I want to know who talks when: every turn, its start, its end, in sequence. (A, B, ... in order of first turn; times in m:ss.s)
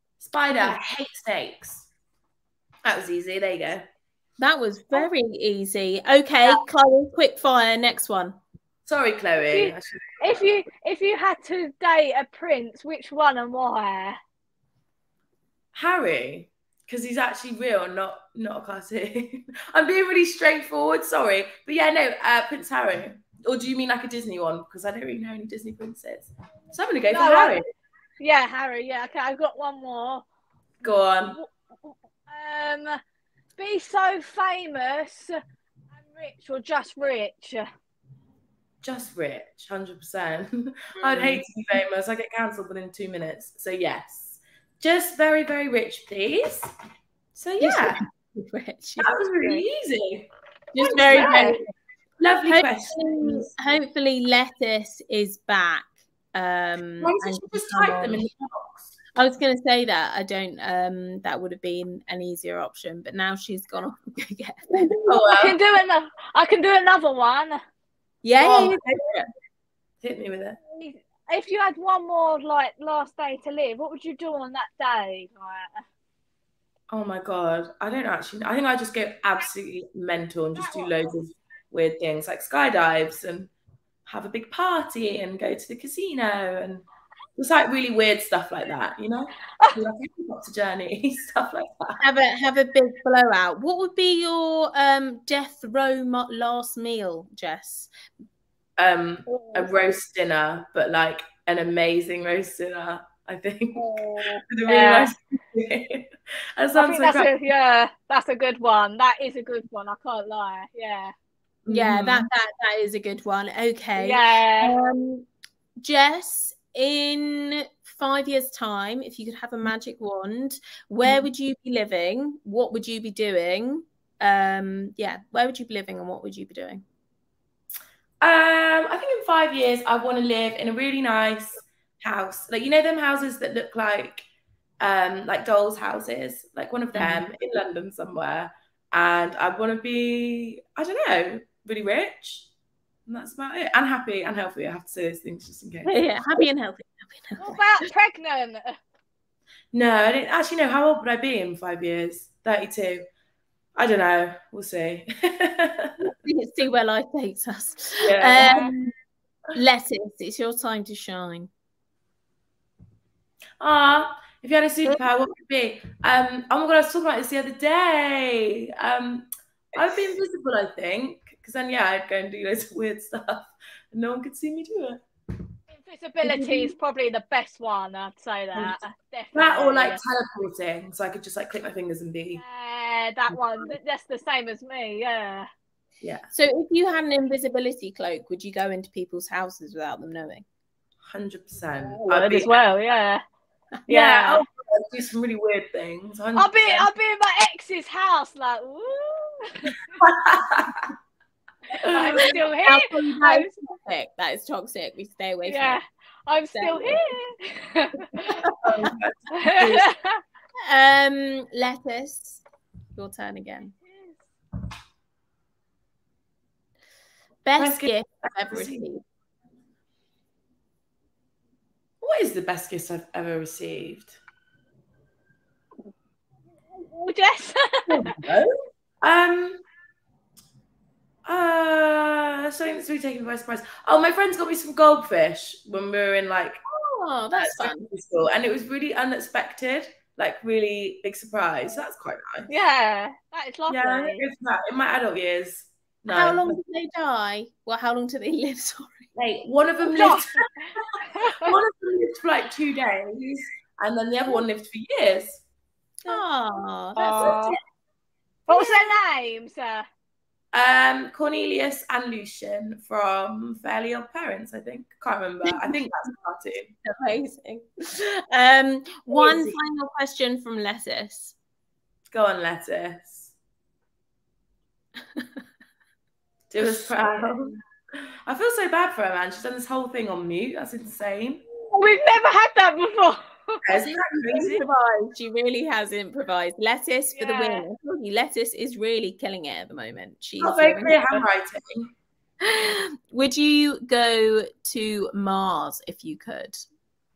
0:00.2-0:01.9 A
0:02.8-0:03.9 A
0:04.4-0:08.4 B
0:08.8-0:10.5 A
0:09.5-0:14.2 C
0:15.7-0:27.7 A
0:27.1-0:27.6 C
0:28.2-0:30.2 C
0:30.8-0:31.4 A
0:32.3-0:33.0 C
0:33.6-0:35.4 C
0:36.0-0:37.7 C
0:38.8-0:46.7 A
0:41.0-0:41.4 B
0:47.4-0:48.0 A
0:47.6-0:49.1 B
0:49.0-0:50.3 A
0:50.8-0:51.6 B
0:50.8-0:51.6 A
0:51.1-0:51.6 C
0:52.2-0:53.5 A
0:52.5-0:58.3 B
0:57.0-0:58.9 A
0:59.2-1:05.0 B
1:04.7-1:07.6 C
1:05.1-1:05.6 A
1:08.2-1:09.3 B
1:08.4-1:08.8 A
1:10.0-1:10.6 A
1:10.7-1:15.8 C
1:16.9-1:23.5 A
1:20.6-1:20.9 C
1:24.0-1:32.0 A
1:32.0-1:37.9 B
1:38.8-1:43.9 A
1:39.3-1:39.8 C
1:43.8-1:45.1 C
1:44.5-1:47.3 A
1:46.8-1:51.1 C
1:51.6-1:52.3 A
1:51.7-1:55.3 B
1:54.0-1:54.8 C
1:55.8-2:06.8 B
2:08.2-2:14.3 A
2:14.8-2:22.5 A
2:16.9-2:17.3 B
2:23.1-2:25.9 A
2:25.9-2:27.8 B
2:27.4-2:28.8 C
2:29.7-2:33.1 A
2:33.8-2:36.0 A
2:36.0-2:38.9 B
2:38.0-2:38.7 A
2:39.6-2:41.5 B
2:43.6-2:55.0 A
2:55.7-3:00.0 C
2:56.2-2:56.7 B
2:59.4-3:02.4 A
3:02.4-3:05.5 C
3:06.0-3:06.3 A
3:06.3-3:10.4 B
3:11.1-3:12.6 A
3:11.9-3:13.2 C
3:13.9-3:14.4 C
3:13.9-3:16.9 A
3:16.4-3:20.0 C
3:20.0-3:20.9 A
3:21.8-3:22.4 A
3:21.8-3:23.5 C
3:22.6-3:25.8 B
3:25.5-3:28.4 C
3:26.5-3:27.2 B
3:28.2-3:28.9 B
3:28.6-3:29.9 A
3:29.3-3:30.2 C
3:30.7-3:32.4 B
3:33.0-3:33.8 B
3:33.9-3:34.2 C
3:37.4-3:39.0 B
3:37.6-3:38.8 A
3:42.0-3:44.2 A
3:46.8-3:48.2 C
3:47.9-3:48.5 A
3:49.0-3:49.6 A
3:51.3-3:56.6 A
3:56.7-3:57.9 B
3:57.4-4:02.5 A
4:02.5-4:04.2 C
4:03.7-4:06.6 A
4:06.1-4:09.1 B
4:09.2-4:15.4 A
4:09.9-4:11.5 C
4:16.1-4:17.5 B
4:17.0-4:17.6 C
4:17.0-4:17.5 A
4:18.5-4:19.9 C
4:20.5-4:26.8 A
4:25.4-4:25.8 B
4:26.8-4:31.4 B
4:29.1-4:29.6 A
4:32.1-4:33.3 A
4:35.1-4:35.4 B
4:36.5-4:37.0 B
4:36.5-4:41.4 A
4:41.5-4:43.6 C
4:43.6-4:44.6 A
4:43.9-4:51.2 B
4:47.1-4:47.6 C
4:50.4-4:51.9 A
4:52.4-4:56.6 B